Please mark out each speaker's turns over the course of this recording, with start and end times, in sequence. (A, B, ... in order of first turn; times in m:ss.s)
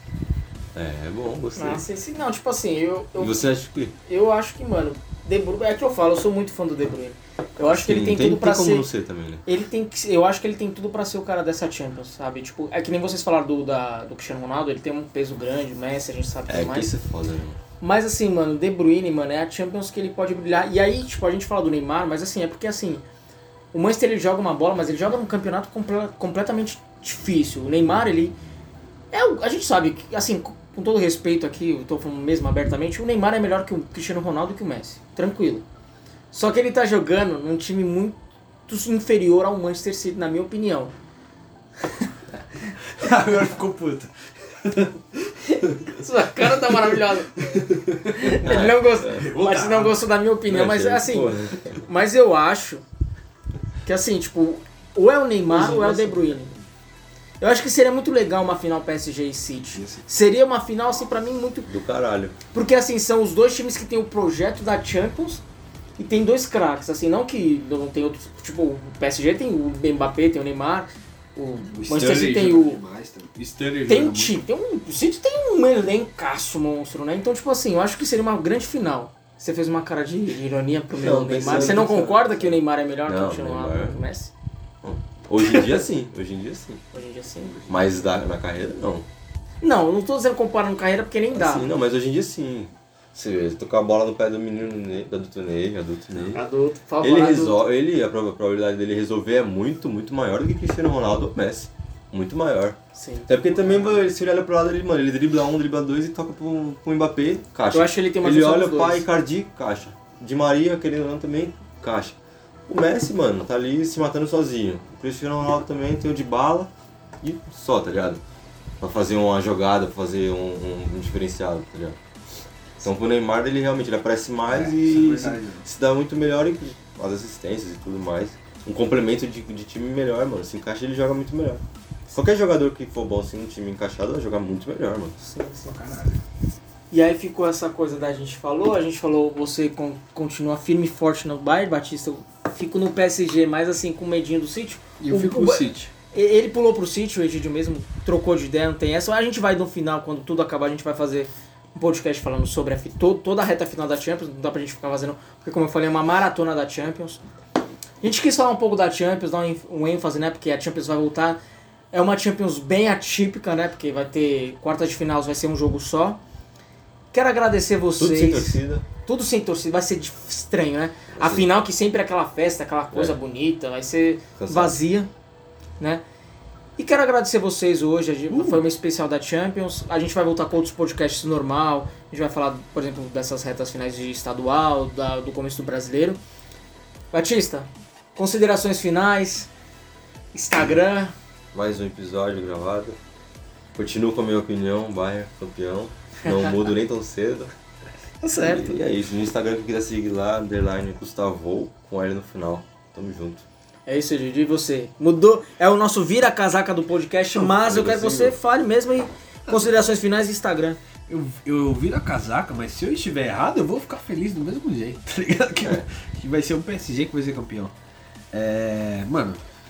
0:00.8-0:01.8 A
0:01.6-0:03.4 B
0:03.2-0:04.0 A
0:04.1-0:08.9 B
0:07.6-0:09.4 A
0:09.5-0:16.9 B
0:16.5-0:17.6 A
0:17.8-0:23.0 B
0:23.7-0:28.4 B
0:29.1-0:35.6 B
0:36.3-0:38.2 B
0:38.7-0:40.9 B
0:42.9-0:45.8 C
0:45.4-0:52.8 B
0:47.5-0:48.3 C
0:48.4-0:49.3 A
0:49.2-0:50.0 C
0:50.5-0:51.8 A
0:53.8-0:56.5 B
0:55.5-0:56.6 C
0:57.4-1:01.7 B
0:59.8-1:00.0 C
1:01.7-1:02.4 A
1:02.5-1:05.4 B
1:06.0-1:12.8 B
1:11.7-1:14.4 C
1:13.9-1:24.3 B
1:21.0-1:24.0 A
1:21.5-1:22.1 C
1:24.8-1:26.8 A
1:26.9-1:27.7 B
1:27.7-1:29.1 A
1:29.6-1:31.7 B
1:31.4-1:36.4 A
1:36.3-1:37.6 B
1:37.0-1:42.8 A
1:43.0-1:43.7 B
1:43.3-1:52.2 A
1:47.7-1:49.0 B
1:52.7-1:56.7 A
1:57.2-1:58.2 A
1:58.8-2:02.0 A
2:02.8-2:15.2 A
2:04.5-2:05.6 C
2:15.2-2:15.7 B
2:15.6-2:16.2 C
2:16.9-2:37.2 B
2:25.0-2:25.9 C
2:38.0-2:41.4 B
2:41.9-2:46.2 B
2:47.1-2:55.1 B
2:48.0-2:48.8 A
2:51.1-2:51.5 A
2:54.4-2:54.8 A
2:56.8-3:06.2 B
2:58.3-2:58.6 C
3:07.1-3:09.5 B
3:10.3-3:11.2 B
3:11.5-3:13.0 A
3:13.8-3:17.5 A
3:18.2-3:18.8 B
3:18.4-3:23.4 A
3:23.9-3:30.8 B
3:27.4-3:28.4 A
3:29.5-3:29.7 C
3:31.1-3:37.7 C
3:38.3-3:39.4 C